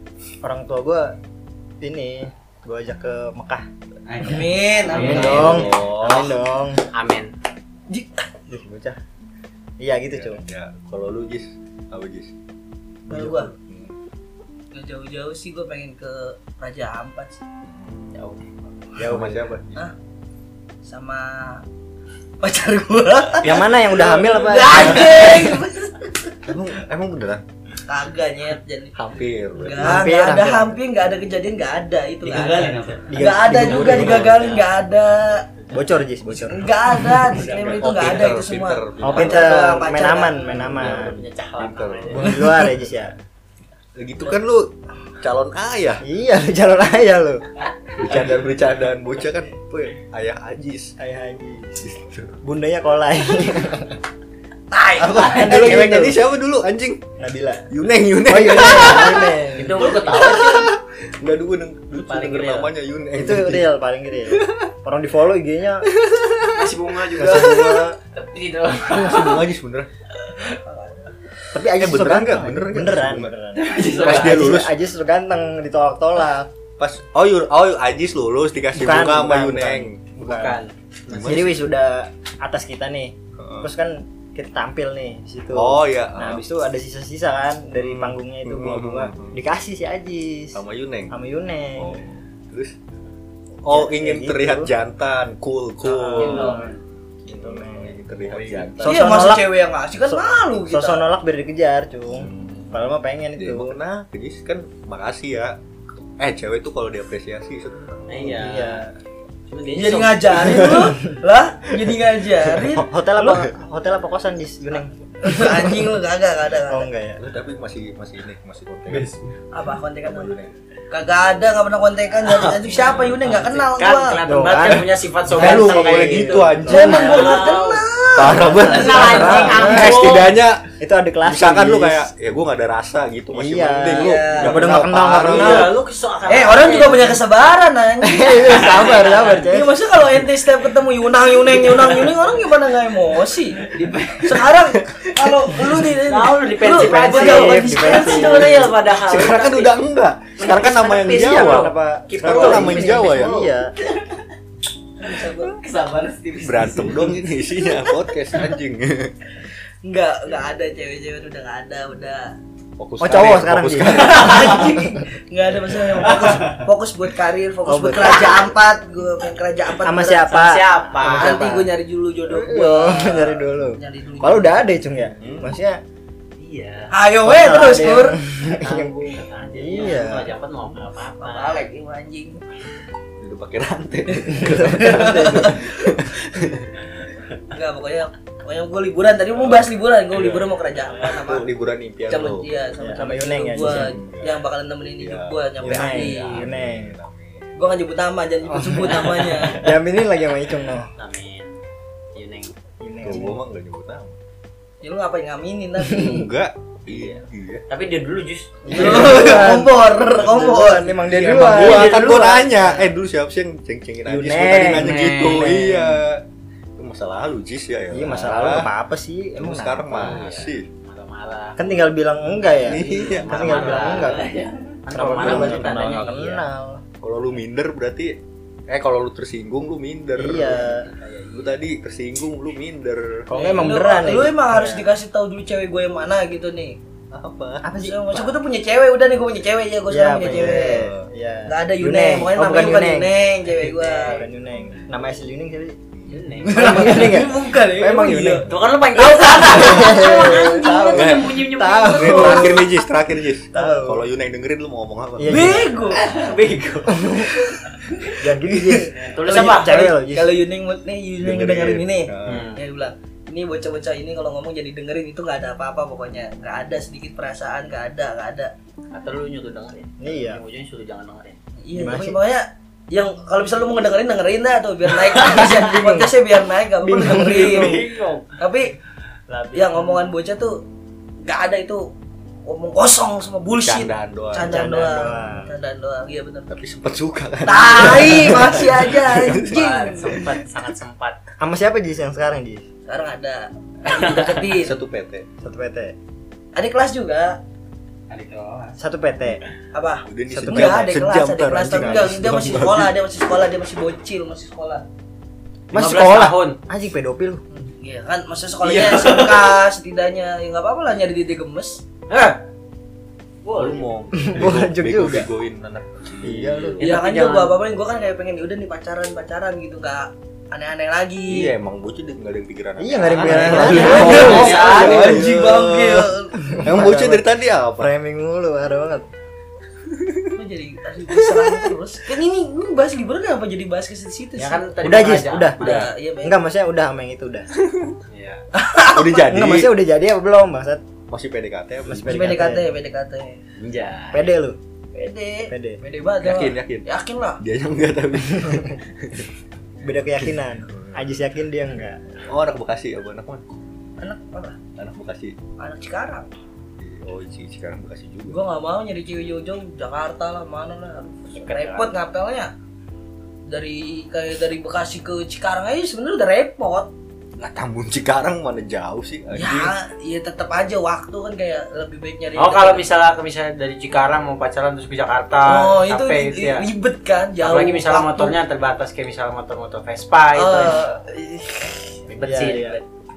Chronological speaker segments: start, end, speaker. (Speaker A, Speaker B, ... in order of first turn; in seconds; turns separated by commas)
Speaker A: 0.4-1.1, Speaker A: 1.8-3.6, Speaker B: 4.1-5.6, Speaker C: 4.2-5.6, Speaker D: 4.9-5.9, Speaker E: 4.9-6.3, Speaker A: 5.0-6.8, Speaker D: 6.9-7.3, Speaker C: 7.9-8.3, Speaker A: 8.5-9.0, Speaker A: 9.8-10.4, Speaker E: 10.1-12.3, Speaker E: 13.1-13.9, Speaker C: 13.1-13.5, Speaker C: 14.7-17.4, Speaker E: 17.6-18.1, Speaker E: 18.9-19.8, Speaker A: 19.0-19.5, Speaker C: 20.8-21.6, Speaker C: 22.4-26.4, Speaker A: 23.4-25.5, Speaker E: 24.7-25.2, Speaker E: 26.4-27.4, Speaker C: 27.9-28.9, Speaker E: 28.9-30.0, Speaker C: 29.5-35.5, Speaker A: 29.8-30.8, Speaker B: 32.2-33.1, Speaker A: 33.1-34.3, Speaker E: 33.6-34.5, Speaker D: 34.0-34.6, Speaker A: 35.7-37.0, Speaker C: 36.3-40.5, Speaker E: 37.4-39.7, Speaker D: 37.5-37.8, Speaker A: 39.0-41.2, Speaker D: 40.5-42.4, Speaker E: 40.5-42.6, Speaker A: 42.1-43.1, Speaker E: 44.0-46.0, Speaker A: 46.0-47.4, Speaker E: 47.9-50.9, Speaker A: 51.0-51.8, Speaker E: 51.8-52.4, Speaker A: 52.4-54.0, Speaker C: 54.7-55.3, Speaker E: 55.0-57.0, Speaker A: 55.1-56.2, Speaker A: 57.2-57.7, Speaker E: 57.7-63.7, Speaker A: 58.2-60.0, Speaker D: 59.5-60.7, Speaker B: 59.7-60.6, Speaker D: 61.9-62.7, Speaker A: 63.1-65.9, Speaker E: 64.3-64.7, Speaker E: 66.0-67.9, Speaker D: 66.5-67.5, Speaker A: 67.1-68.0, Speaker B: 68.2-69.3, Speaker D: 68.2-69.2, Speaker E: 68.9-69.9, Speaker C: 70.6-71.1, Speaker A: 71.5-76.5, Speaker E: 71.7-73.3, Speaker B: 73.6-74.5, Speaker D: 73.7-74.4, Speaker E: 73.9-74.7, Speaker E: 76.8-80.0, Speaker A: 78.7-80.6, Speaker D: 80.2-80.7, Speaker E: 81.1-81.6, Speaker A: 81.1-92.0, Speaker E: 83.4-83.7, Speaker E: 85.5-86.4, Speaker E: 87.8-89.4, Speaker E: 90.5-91.1, Speaker E: 91.8-92.7, Speaker E: 93.6-96.6, Speaker A: 93.7-94.7, Speaker A: 95.9-96.7, Speaker B: 96.1-96.7, Speaker D: 96.2-96.7, Speaker E: 97.2-98.9, Speaker A: 97.3-98.0, Speaker D: 98.2-98.8, Speaker A: 98.8-99.5, Speaker C: 98.8-101.0, Speaker A: 100.0-103.8, Speaker E: 102.1-102.5, Speaker E: 103.4-105.6, Speaker E: 106.2-108.4, Speaker D: 108.1-108.9, Speaker A: 108.3-108.9, Speaker D: 109.5-110.7, Speaker C: 109.7-112.9, Speaker E: 110.4-110.9, Speaker A: 110.8-111.1, Speaker A: 112.7-115.9, Speaker E: 113.2-113.5, Speaker C: 115.2-116.9, Speaker A: 116.7-117.2, Speaker E: 117.2-119.1, Speaker B: 118.9-119.3, Speaker C: 119.5-120.3, Speaker E: 120.0-120.5, Speaker C: 120.9-124.2, Speaker D: 122.3-127.8, Speaker A: 124.2-127.2, Speaker E: 125.3-127.4, Speaker C: 126.7-129.3, Speaker E: 128.1-135.7, Speaker D: 128.6-130.4, Speaker A: 128.8-130.2, Speaker A: 130.8-132.1, Speaker A: 133.3-135.7, Speaker C: 133.8-134.8, Speaker D: 135.2-137.2, Speaker C: 136.2-143.6, Speaker A: 138.0-139.7, Speaker D: 138.5-139.4, Speaker D: 143.6-144.4, Speaker C: 144.2-148.5, Speaker E: 144.9-145.3, Speaker D: 146.0-149.8, Speaker A: 146.7-148.7, Speaker E: 148.4-153.4, Speaker D: 150.4-153.5, Speaker A: 151.0-153.7, Speaker C: 155.0-155.6, Speaker D: 155.6-157.0, Speaker E: 156.3-159.1, Speaker C: 159.8-162.3, Speaker E: 162.8-164.8, Speaker A: 163.0-164.3, Speaker C: 163.9-170.3, Speaker E: 165.9-166.4, Speaker A: 167.6-168.5, Speaker A: 169.8-171.7, Speaker D: 170.2-171.4, Speaker C: 171.0-174.7, Speaker A: 172.3-175.8, Speaker E: 175.2-175.6, Speaker D: 176.4-176.9, Speaker C: 176.9-178.2, Speaker A: 177.2-180.3, Speaker D: 178.4-181.6, Speaker C: 181.2-182.4, Speaker E: 183.2-186.9, Speaker A: 184.4-185.6, Speaker C: 184.6-185.8, Speaker C: 187.5-191.5, Speaker E: 189.4-192.5, Speaker C: 192.1-196.5, Speaker A: 192.8-193.9, Speaker E: 193.6-194.4, Speaker E: 195.0-197.6, Speaker A: 195.6-197.0, Speaker C: 197.6-199.7, Speaker A: 198.5-200.9, Speaker D: 199.0-199.6, Speaker D: 200.9-201.6, Speaker D: 202.1-202.5, Speaker A: 202.8-203.4, Speaker E: 203.0-204.2, Speaker C: 204.8-206.1, Speaker A: 205.9-206.3, Speaker E: 205.9-207.6, Speaker D: 206.9-209.1, Speaker A: 208.7-212.9, Speaker C: 208.7-212.2, Speaker E: 208.8-210.4, Speaker E: 211.0-216.2, Speaker D: 211.5-212.3, Speaker A: 214.0-216.0, Speaker D: 214.7-215.6, Speaker E: 216.8-218.7, Speaker A: 217.9-220.3, Speaker E: 219.3-220.7, Speaker D: 219.9-221.9, Speaker A: 221.6-224.3, Speaker D: 222.5-226.4, Speaker E: 222.5-224.1, Speaker A: 224.9-226.8, Speaker E: 225.0-225.7, Speaker E: 227.0-233.3, Speaker A: 230.2-230.8, Speaker D: 230.8-231.6, Speaker A: 233.3-234.9, Speaker C: 233.4-236.8, Speaker E: 237.1-237.7, Speaker A: 237.6-238.3, Speaker C: 237.8-240.9, Speaker A: 239.9-243.1, Speaker E: 240.2-241.1, Speaker C: 241.4-244.2, Speaker D: 243.7-244.2, Speaker A: 244.0-245.8, Speaker E: 245.9-246.3, Speaker D: 246.1-247.0, Speaker C: 246.4-248.4, Speaker A: 246.4-248.4, Speaker D: 248.4-252.6, Speaker C: 248.9-250.9, Speaker A: 249.3-252.8, Speaker E: 250.9-255.7, Speaker A: 253.5-254.1, Speaker A: 255.2-255.8, Speaker C: 255.3-256.0, Speaker D: 255.9-257.4, Speaker A: 256.9-257.3, Speaker A: 258.1-260.4, Speaker D: 258.9-259.8, Speaker C: 259.2-268.5, Speaker E: 261.2-262.5, Speaker D: 262.2-262.6, Speaker D: 268.9-271.4, Speaker A: 270.0-270.4, Speaker C: 271.6-277.9, Speaker A: 271.7-272.2, Speaker D: 275.0-275.8, Speaker A: 275.6-276.1, Speaker A: 276.8-277.8, Speaker D: 277.0-278.3, Speaker C: 278.4-278.7, Speaker A: 279.3-279.8, Speaker C: 279.5-280.6, Speaker C: 281.2-281.9, Speaker C: 282.4-286.5, Speaker E: 283.6-284.6, Speaker A: 284.4-285.5, Speaker E: 286.5-290.3, Speaker C: 287.4-290.2, Speaker D: 289.4-291.2, Speaker A: 291.4-292.6, Speaker C: 292.9-294.8, Speaker D: 293.9-294.3, Speaker E: 294.5-295.3, Speaker A: 295.4-295.9, Speaker C: 296.5-297.4, Speaker B: 298.1-298.7, Speaker A: 298.8-299.4, Speaker C: 299.7-304.8, Speaker E: 300.1-302.9, Speaker A: 300.3-301.1, Speaker A: 301.7-302.1, Speaker D: 305.7-306.6, Speaker A: 305.7-307.4, Speaker C: 307.5-311.8, Speaker D: 308.6-309.6, Speaker D: 312.1-312.4, Speaker D: 313.4-313.9, Speaker E: 313.5-316.8, Speaker A: 314.2-315.3, Speaker A: 316.2-316.8, Speaker D: 316.8-317.6, Speaker C: 316.8-321.5, Speaker E: 321.3-327.9, Speaker A: 322.8-325.3, Speaker C: 323.2-326.6, Speaker D: 323.3-325.1, Speaker A: 326.4-329.1, Speaker E: 329.9-330.4, Speaker C: 330.3-334.8, Speaker E: 331.1-331.7, Speaker D: 334.4-335.9, Speaker A: 334.8-337.5, Speaker C: 335.6-336.4, Speaker E: 337.6-338.0, Speaker D: 338.1-338.4, Speaker C: 338.5-339.2, Speaker E: 338.9-339.7, Speaker A: 339.2-340.8, Speaker E: 341.1-342.5, Speaker A: 341.9-342.7, Speaker C: 342.0-343.4, Speaker D: 343.6-344.3, Speaker A: 344.1-344.6, Speaker C: 344.9-347.4, Speaker A: 345.5-345.8, Speaker E: 346.1-346.9, Speaker E: 347.4-349.3, Speaker A: 348.3-348.7, Speaker A: 349.8-352.0, Speaker E: 350.7-351.0, Speaker E: 352.2-353.4, Speaker C: 354.0-354.6, Speaker E: 354.8-355.4, Speaker C: 355.6-356.3, Speaker E: 356.8-358.5, Speaker C: 358.3-362.5, Speaker D: 361.3-361.9, Speaker C: 363.5-366.9, Speaker E: 367.4-369.7, Speaker C: 369.3-372.9, Speaker D: 372.3-376.7, Speaker C: 375.4-378.4, Speaker D: 377.4-381.0, Speaker C: 380.3-381.9, Speaker D: 382.1-382.8, Speaker A: 382.2-382.8